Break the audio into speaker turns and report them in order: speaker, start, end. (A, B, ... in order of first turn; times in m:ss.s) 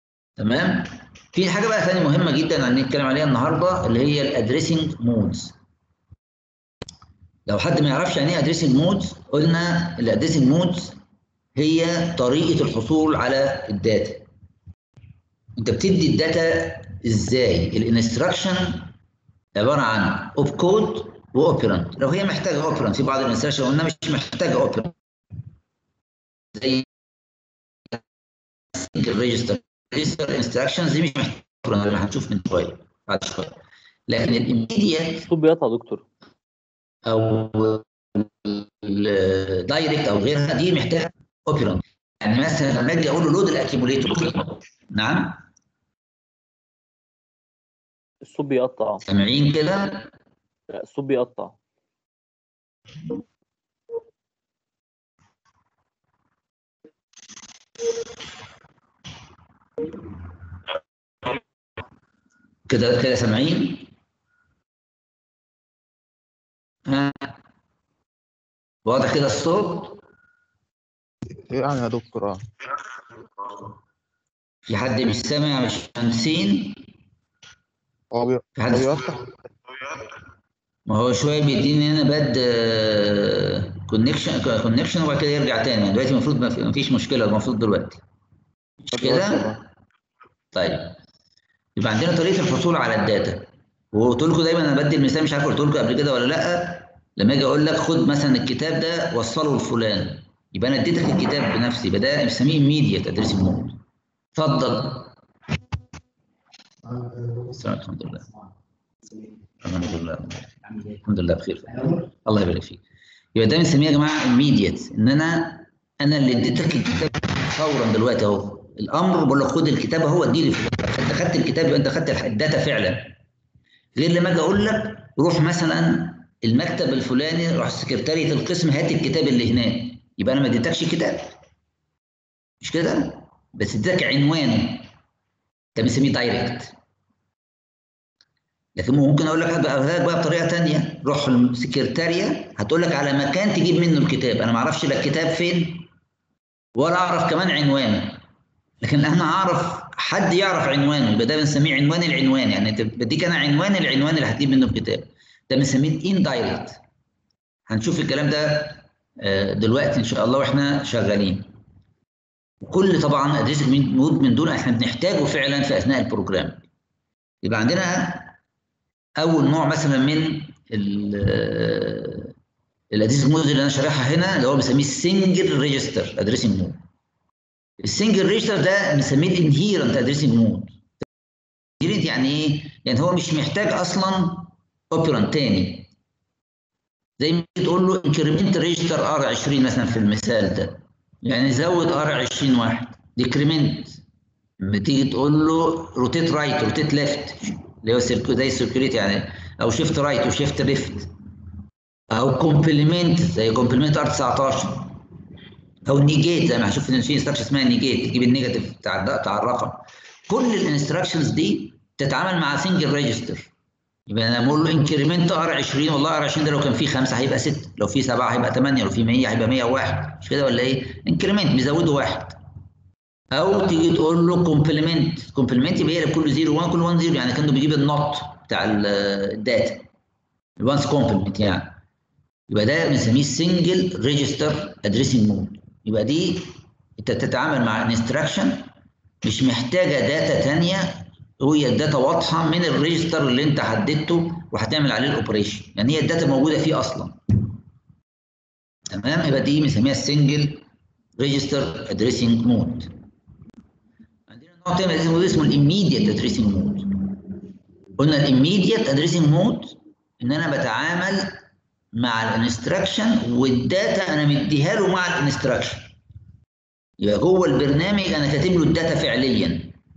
0:00.4-0:05.6 A
0:07.5-0:11.0 A
0:11.6-0:14.2 A
0:15.6-0:18.9 A
0:19.6-0:24.9 A
0:26.6-0:26.9 A
0:28.8-0:33.6 A
0:34.1-0:35.3 A
0:35.3-0:36.0 B
0:37.1-0:45.4 A
0:48.2-0:49.0 B
0:49.1-0:50.1 A
0:50.7-0:51.6 B
1:02.7-1:03.9 A
1:06.9-1:07.3 A
1:08.8-1:10.0 A
1:11.3-1:12.5 C
1:14.7-1:16.8 A
1:18.1-1:19.2 C
1:18.6-1:19.0 A
1:20.9-1:28.0 A
1:28.9-1:29.6 C
1:28.9-1:29.6 A
1:30.5-1:31.0 A
1:31.8-1:43.8 A
1:44.3-1:45.1 A
1:47.5-1:48.3 A
1:49.6-1:52.8 A
1:53.4-2:03.2 A
2:03.9-2:11.3 A
2:12.6-2:14.9 A
2:15.8-2:16.7 A
2:18.8-2:25.9 A
2:26.8-2:28.2 A
2:28.8-2:36.8 A
2:37.7-2:41.5 A
2:42.6-2:46.6 A
2:47.4-2:48.4 A
2:49.2-2:52.3 A
2:52.9-2:56.8 A
2:57.8-3:00.8 A
3:01.8-3:05.9 A
3:07.2-3:14.0 A
3:14.6-3:21.1 A
3:22.1-3:25.0 A
3:25.8-3:33.5 A
3:34.1-3:42.4 A
3:43.3-3:49.9 A
3:50.6-3:51.8 A
3:52.5-3:58.7 A
3:59.2-4:07.2 A
4:08.9-4:10.6 A
4:11.2-4:12.9 A
4:14.3-4:17.2 A
4:18.0-4:21.4 A
4:21.9-4:26.0 A
4:27.0-4:29.8 A